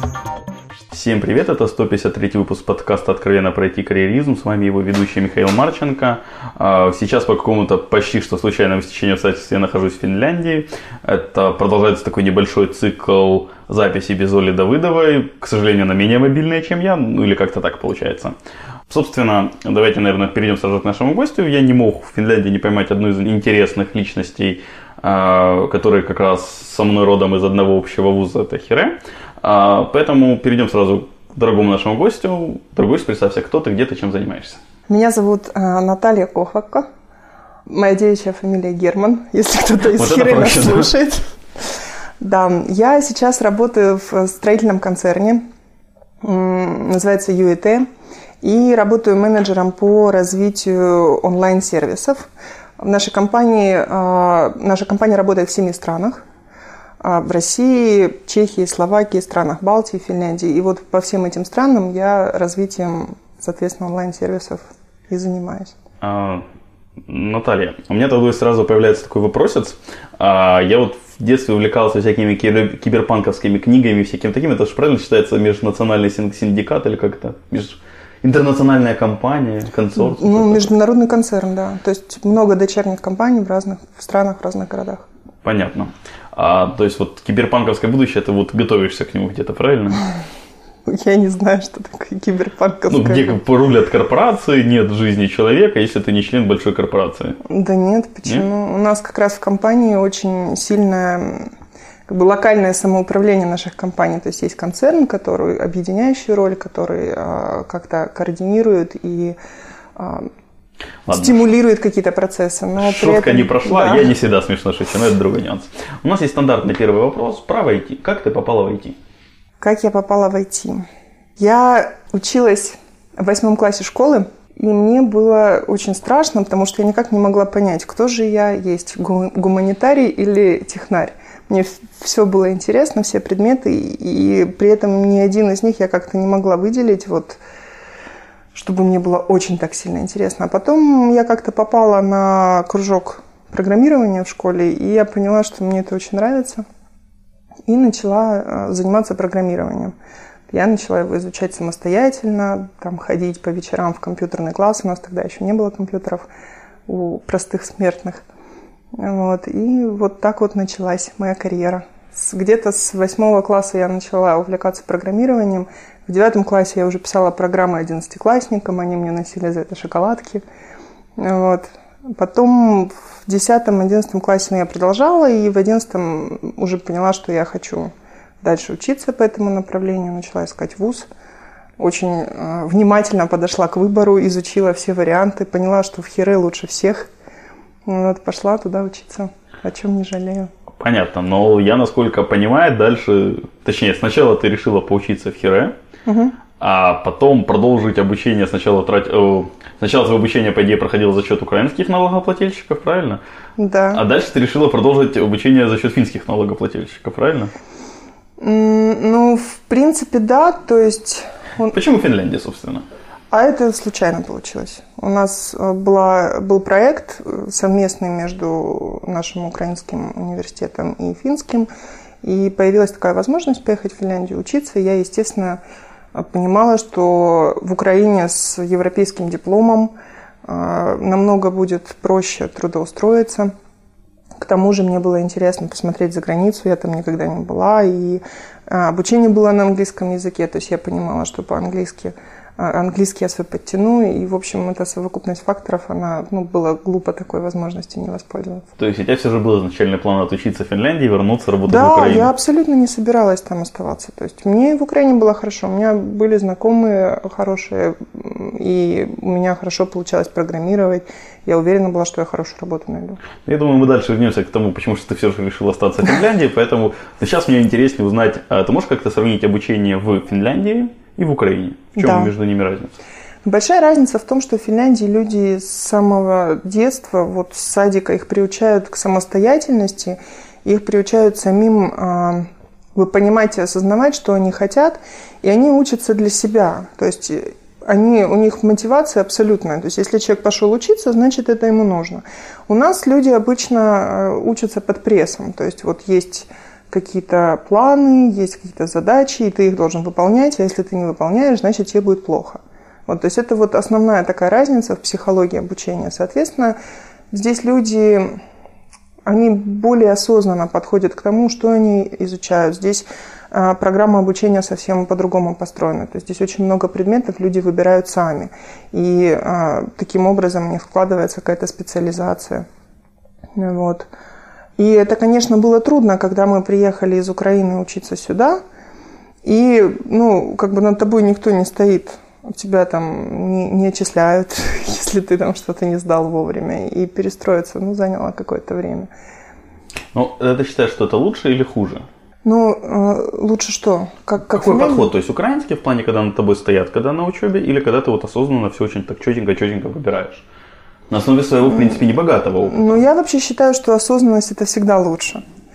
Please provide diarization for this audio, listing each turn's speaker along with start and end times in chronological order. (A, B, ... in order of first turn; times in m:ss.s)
0:00.9-0:18.4 A
0:18.9-0:34.6 A
0:34.9-0:36.9 B
0:37.7-0:41.7 B
0:39.9-0:40.9 A
0:42.2-0:45.4 B
0:46.2-0:47.9 B
0:48.4-0:56.2 B
0:57.0-1:05.8 B
1:06.0-1:06.4 A
1:07.1-1:20.7 A
1:20.0-1:25.1 B
1:25.4-1:30.1 A
1:30.8-1:33.4 B
1:32.9-1:37.4 A
1:37.4-1:41.5 B
1:42.1-1:49.4 B
1:50.0-1:50.3 B
1:51.1-1:51.4 A
1:51.1-1:54.1 B
1:52.8-1:59.0 A
1:59.6-2:00.8 B
2:01.4-2:17.4 B
2:18.5-2:26.6 B
2:27.7-2:30.0 B
2:30.5-2:36.3 B
2:36.9-2:38.2 B
2:38.9-2:50.4 B
2:51.2-3:01.1 B
3:01.8-3:07.1 B
3:07.8-3:10.5 B
3:10.8-3:15.7 A
3:16.1-3:16.4 B
3:16.6-3:23.2 A
3:23.6-3:24.0 B
3:23.9-3:27.5 A
3:28.4-3:31.8 B
3:31.7-3:32.8 A
3:33.3-3:41.7 B
3:42.2-3:45.6 B
3:46.1-3:53.5 B
3:54.4-4:08.7 B
4:08.8-4:12.3 A
4:11.7-4:23.2 B
4:23.4-4:33.0 A
4:32.0-4:32.3 B
4:33.4-5:06.8 B
5:07.3-5:08.4 B
5:09.2-5:22.7 B
5:23.6-5:24.1 B
5:24.8-5:28.6 B
5:29.4-5:39.1 B
5:40.1-5:42.1 A
5:42.4-5:45.1 B
5:44.5-5:50.5 A
5:51.1-5:53.0 A
5:51.7-5:52.0 B
5:52.6-5:55.4 B